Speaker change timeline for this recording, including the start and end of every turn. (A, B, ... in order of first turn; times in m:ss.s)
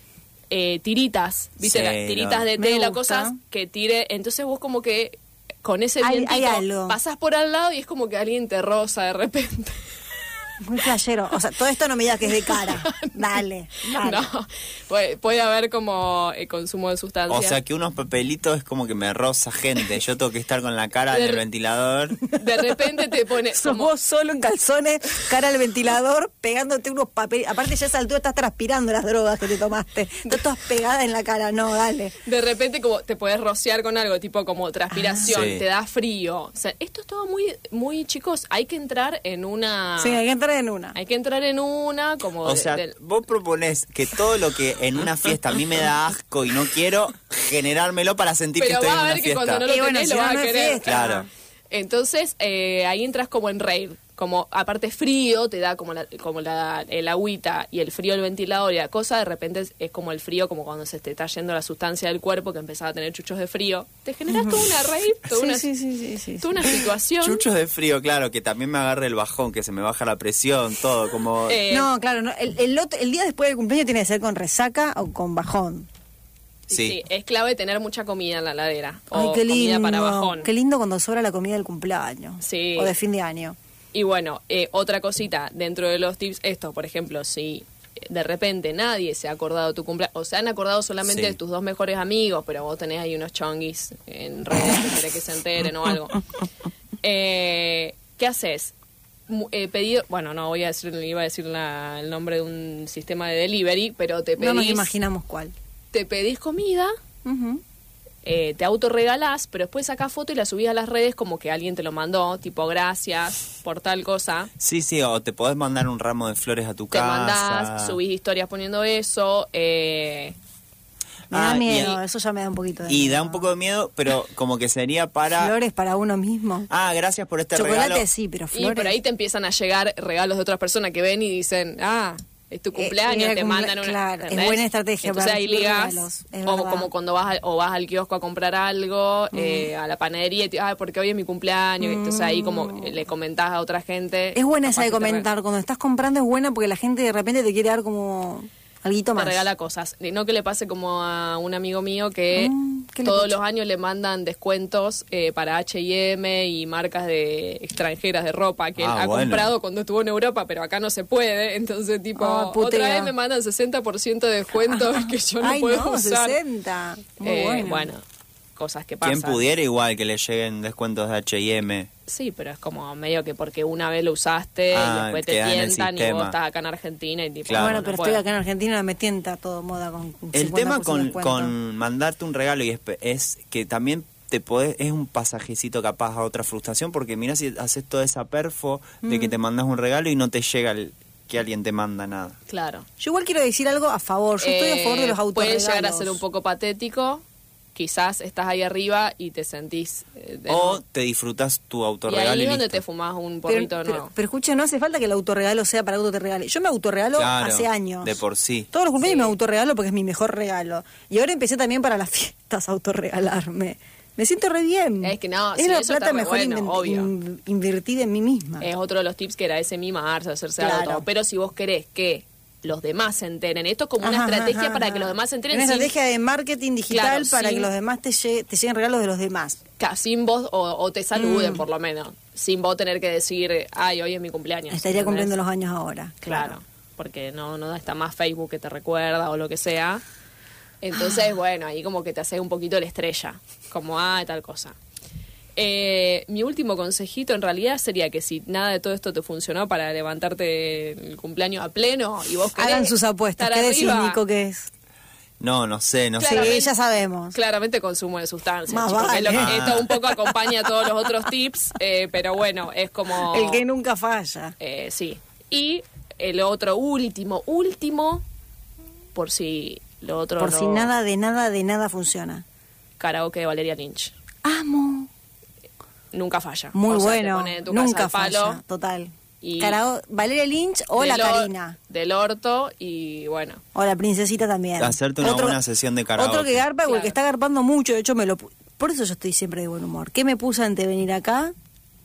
0:00.5-0:09.8 A
0:01.6-0:02.5 B
0:02.6-0:03.4 C
0:06.0-0:07.0 C
0:10.6-0:14.3 C
0:12.3-0:13.2 A
0:13.9-0:17.6 A
0:17.3-0:22.2 B
0:21.1-0:21.4 A
0:22.3-0:23.9 A
0:23.5-0:32.2 C
0:32.2-0:40.2 A
0:34.9-0:35.5 C
0:35.3-0:35.6 B
0:40.0-0:41.0 C
0:41.0-0:42.9 A
0:42.4-0:49.6 B
0:48.6-0:51.2 A
0:49.6-0:51.3 C
0:50.9-0:51.3 B
0:51.7-1:05.7 A
1:04.3-1:04.7 C
1:05.3-1:06.9 C
1:06.4-1:07.4 A
1:07.2-1:11.6 B
1:11.5-1:11.9 A
1:11.7-1:15.9 C
1:16.7-1:20.5 A
1:16.7-1:17.0 B
1:19.1-1:23.6 C
1:22.4-1:23.0 A
1:23.9-1:36.2 A
1:31.1-1:31.4 B
1:37.0-1:38.7 A
1:39.3-1:44.9 A
1:44.4-1:45.5 C
1:45.9-1:46.9 A
1:47.2-1:47.6 C
1:48.2-1:54.5 A
1:54.6-1:58.0 B
1:56.9-2:00.4 A
2:01.3-2:02.0 B
2:01.3-2:03.5 C
2:02.9-2:05.5 B
2:05.4-2:06.7 C
2:06.7-2:08.1 B
2:07.6-2:09.0 C
2:08.5-2:25.3 A
2:12.8-2:16.9 C
2:19.3-2:19.7 C
2:21.8-2:22.9 C
2:24.4-2:29.5 C
2:29.2-2:46.4 A
2:32.3-2:33.4 C
2:38.8-2:39.5 B
2:42.2-2:43.1 C
2:44.6-2:47.9 C
2:47.2-2:48.0 A
2:48.6-2:49.4 A
2:49.0-2:51.9 B
2:52.1-2:58.2 A
2:54.7-2:56.4 B
2:57.5-2:57.9 B
2:57.6-3:01.5 C
3:00.3-3:12.4 B
3:09.0-3:09.4 C
3:12.5-3:12.9 A
3:13.0-3:16.2 C
3:14.4-3:17.2 A
3:17.8-3:20.8 A
3:20.5-3:22.8 B
3:22.1-3:24.1 A
3:23.5-3:28.2 C
3:27.2-3:28.7 B
3:28.7-3:38.7 C
3:29.0-3:29.3 A
3:35.0-3:37.1 A
3:38.6-3:45.9 A
3:40.6-3:41.1 C
3:44.0-3:49.6 C
3:46.9-3:47.7 A
3:49.8-3:55.3 A
3:51.2-3:51.6 C
3:54.7-3:56.6 C
3:56.2-4:00.0 A
4:00.8-4:04.8 A
4:05.6-4:14.2 A
4:12.6-4:14.7 C
4:15.4-4:16.6 B
4:16.2-4:16.8 A
4:16.2-4:17.4 C
4:17.3-4:23.6 A
4:18.7-4:20.4 C
4:19.3-4:19.9 B
4:23.2-4:24.6 C
4:24.6-4:28.2 A
4:29.1-4:30.9 A
4:30.4-4:32.4 C
4:33.0-4:34.2 A
4:34.4-4:35.1 C
4:36.1-4:38.6 A
4:36.7-4:41.8 C
4:39.4-4:39.8 A
4:41.0-4:43.6 A
4:43.8-4:45.6 C
4:44.8-4:46.6 B
4:46.2-4:51.5 C
4:46.9-4:47.2 A